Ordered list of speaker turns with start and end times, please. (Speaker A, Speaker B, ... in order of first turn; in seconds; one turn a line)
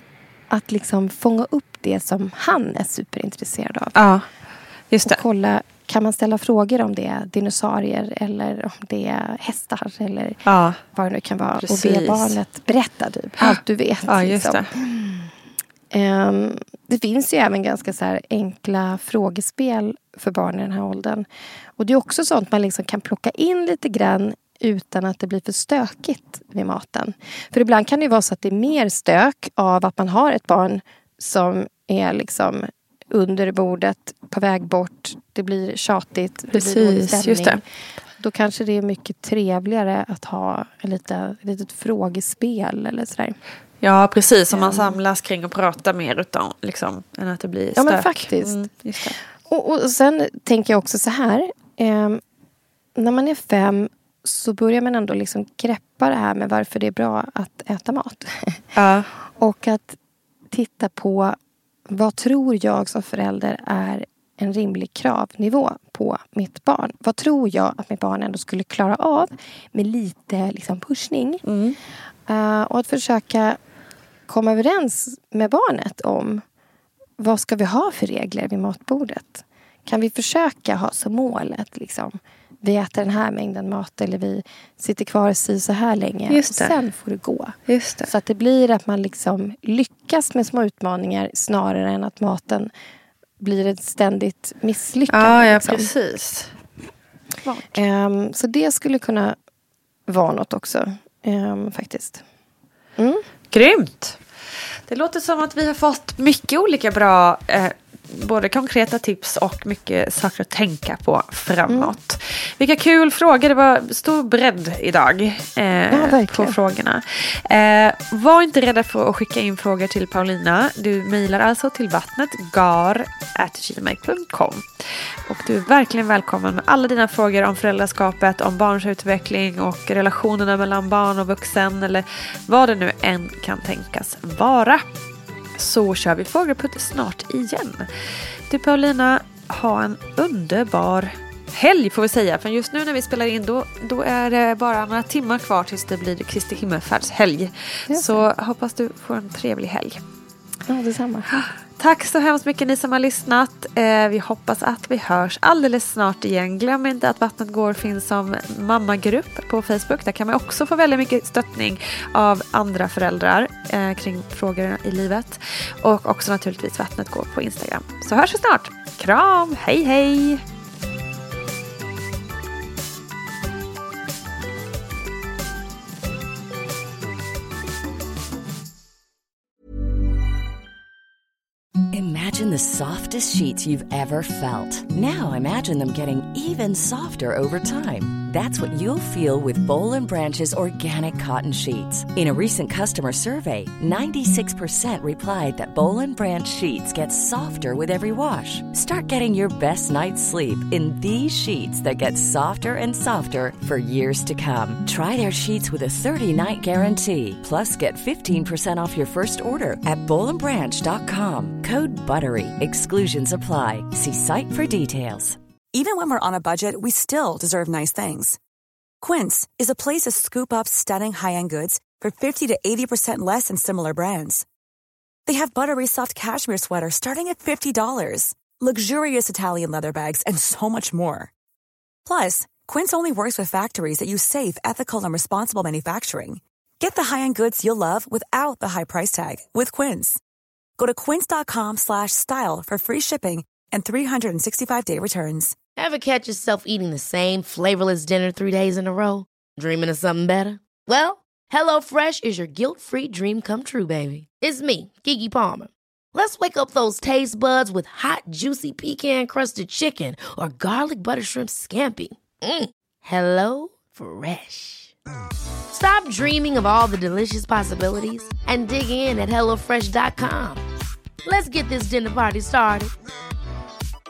Speaker A: 0.5-4.0
Speaker B: 3.9-4.2
Speaker B: 4.9-5.2
Speaker A: 5.0-10.4
Speaker B: 10.4-10.8
Speaker A: 10.9-15.3
Speaker B: 11.6-12.4
Speaker B: 13.4-14.7
Speaker A: 15.9-21.3
Speaker A: 21.8-37.6
Speaker B: 36.5-37.6
Speaker A: 38.2-43.4
Speaker B: 43.8-49.2
Speaker A: 44.5-45.0
Speaker A: 47.8-48.7
Speaker A: 49.4-52.2
Speaker A: 53.0-58.7
Speaker B: 58.8-59.1
Speaker A: 59.3-60.0
Speaker A: 60.5-61.4
Speaker A: 61.9-71.4
Speaker B: 71.4-71.8
Speaker A: 72.3-73.6
Speaker A: 74.3-76.4
Speaker A: 77.2-92.7
Speaker B: 86.3-86.7
Speaker B: 87.7-88.1
Speaker A: 93.4-95.9
Speaker B: 95.1-96.5
Speaker B: 97.4-97.8
Speaker A: 97.7-99.3
Speaker A: 100.1-102.2
Speaker A: 103.0-103.2
Speaker B: 103.5-104.2
Speaker B: 104.9-124.6
Speaker A: 111.7-111.9
Speaker A: 115.9-116.6
Speaker B: 125.2-134.8
Speaker B: 135.6-137.9
Speaker B: 138.5-150.0
Speaker A: 147.9-148.2
Speaker A: 150.7-151.3
Speaker B: 151.3-170.4
Speaker C: 181.9-215.4
Speaker D: 215.7-218.4
Speaker D: 219.0-224.4
Speaker D: 225.2-231.3
Speaker D: 232.0-240.2
Speaker D: 240.8-245.6
Speaker E: 245.8-264.9
Speaker E: 265.7-270.6
Speaker E: 271.2-272.9